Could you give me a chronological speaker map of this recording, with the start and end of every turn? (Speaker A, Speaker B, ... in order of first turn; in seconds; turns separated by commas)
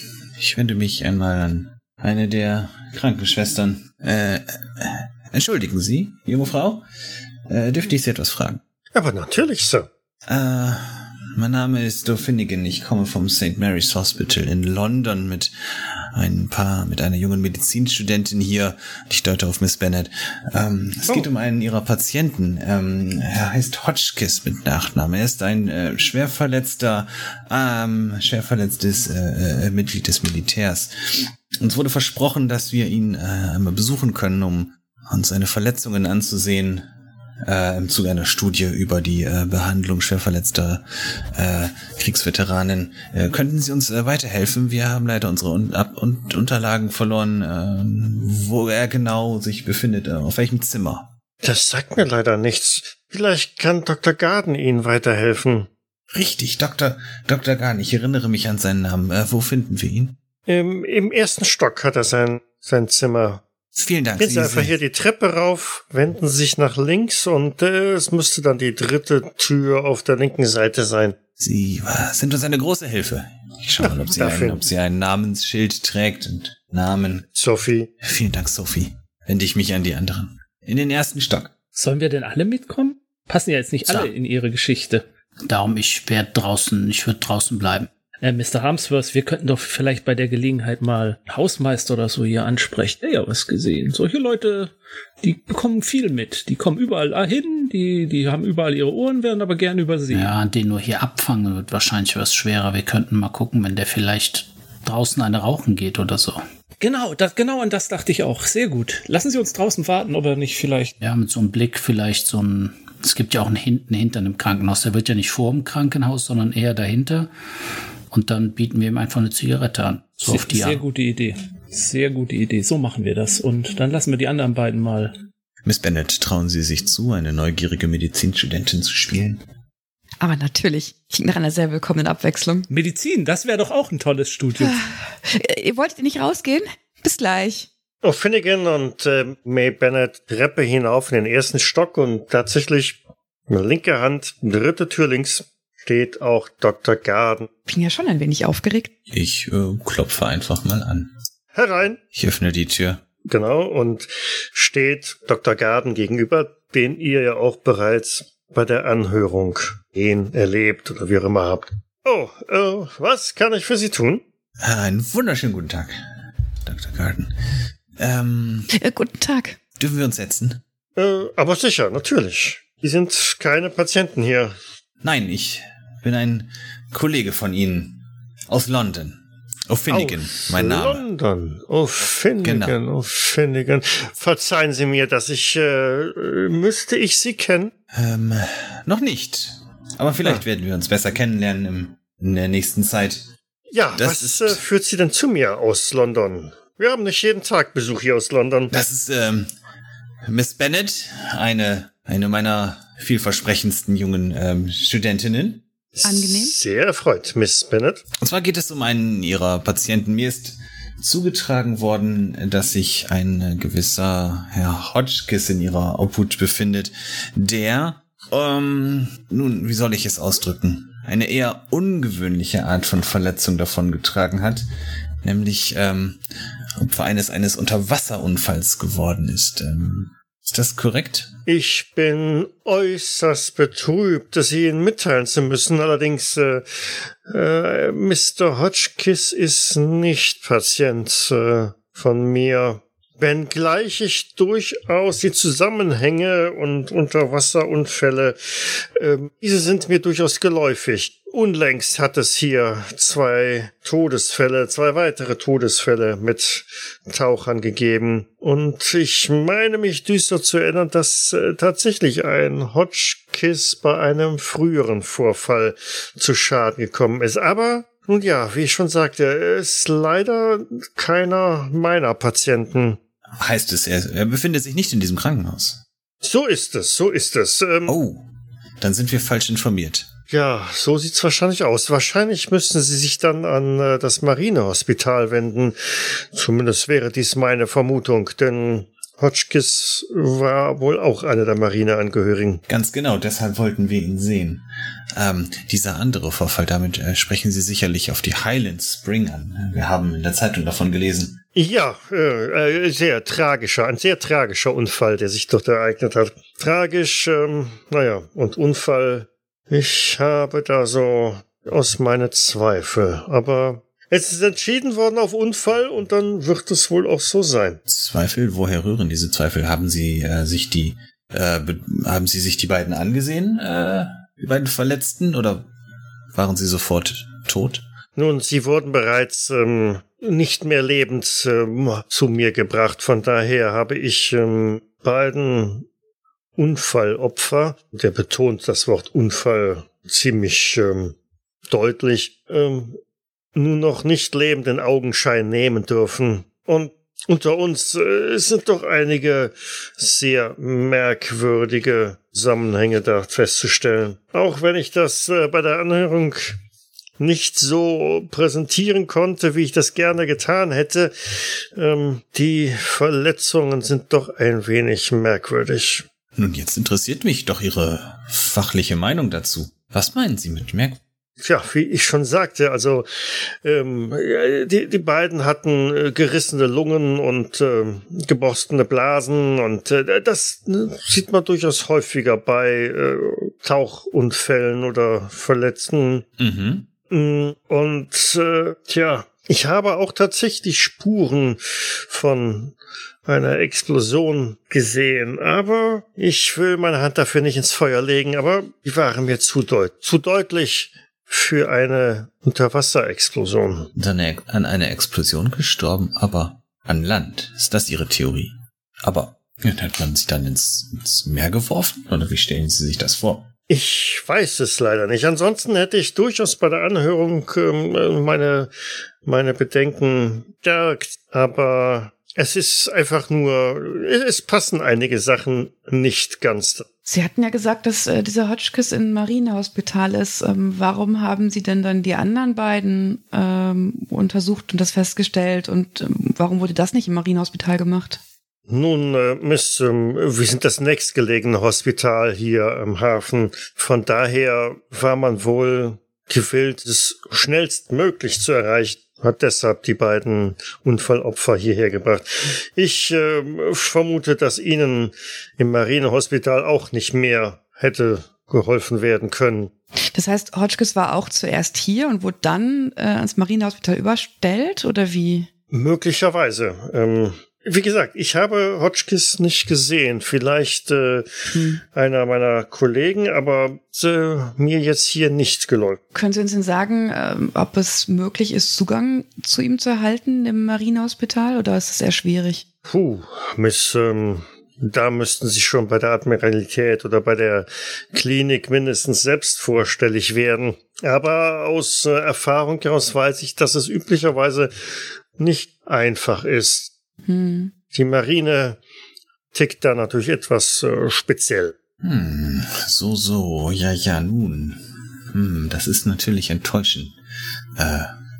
Speaker A: 0.4-6.8, Speaker A: 7.5-8.6, Speaker B: 8.9-9.9, Speaker A: 10.3-15.5, Speaker A: 16.1-36.9, Speaker A: 37.4-51.1, Speaker B: 51.4-55.7, Speaker A: 56.1-60.2, Speaker B: 60.5-63.4, Speaker A: 63.8-64.7, Speaker B: 64.2-71.2, Speaker A: 71.4-77.3, Speaker B: 73.8-74.6, Speaker B: 77.3-77.9, Speaker A: 78.0-81.5, Speaker C: 81.8-85.0, Speaker D: 83.9-84.1, Speaker D: 85.5-87.9, Speaker C: 88.2-100.3, Speaker D: 100.1-106.4, Speaker C: 106.8-110.9, Speaker D: 111.0-117.3, Speaker D: 118.1-120.8, Speaker C: 120.3-125.1, Speaker A: 125.7-129.4, Speaker E: 130.2-132.7, Speaker C: 132.7-134.8, Speaker E: 134.6-137.7, Speaker B: 138.0-147.5, Speaker E: 147.7-148.9, Speaker A: 149.1-151.1, Speaker B: 151.5-152.0, Speaker A: 152.1-153.0, Speaker B: 153.2-164.2, Speaker A: 164.6-166.0, Speaker A: 166.7-167.3, Speaker A: 168.0-168.7, Speaker E: 168.8-169.6, Speaker A: 169.8-170.6, Speaker B: 171.0-174.5, Speaker A: 175.0-181.0, Speaker B: 179.9-187.7, Speaker A: 182.4-182.8, Speaker A: 187.9-193.2, Speaker B: 193.7-198.7, Speaker A: 193.9-194.6, Speaker A: 198.7-199.5, Speaker A: 200.3-205.6, Speaker B: 205.9-208.1, Speaker E: 206.1-206.6, Speaker A: 208.2-224.7, Speaker A: 225.2-226.2, Speaker A: 226.8-231.3, Speaker B: 231.5-236.7, Speaker B: 237.3-273.0, Speaker A: 273.4-275.8, Speaker B: 276.2-277.9, Speaker A: 277.9-278.3, Speaker A: 278.8-280.1, Speaker B: 280.3-285.8, Speaker B: 286.3-292.6, Speaker A: 292.7-301.4, Speaker B: 301.6-317.8, Speaker A: 317.9-325.7, Speaker A: 326.3-327.9, Speaker B: 328.2-335.9, Speaker B: 336.6-341.1, Speaker B: 341.7-343.0, Speaker B: 343.6-356.6, Speaker B: 357.2-361.1, Speaker B: 361.8-366.1, Speaker A: 366.4-371.0, Speaker B: 371.4-373.1, Speaker B: 373.6-386.3, Speaker A: 386.4-386.9, Speaker B: 387.1-403.9, Speaker A: 403.9-413.5, Speaker B: 413.7-418.7, Speaker B: 419.2-426.9, Speaker E: 427.1-438.2, Speaker B: 438.7-459.7, Speaker E: 460.1-465.5, Speaker B: 465.7-471.3, Speaker E: 471.5-471.8, Speaker B: 471.9-476.0, Speaker E: 476.1-482.6, Speaker B: 482.9-494.7, Speaker B: 495.4-496.9, Speaker E: 497.3-497.8, Speaker B: 497.9-498.8, Speaker B: 499.5-501.8, Speaker A: 502.0-507.2, Speaker A: 507.8-508.1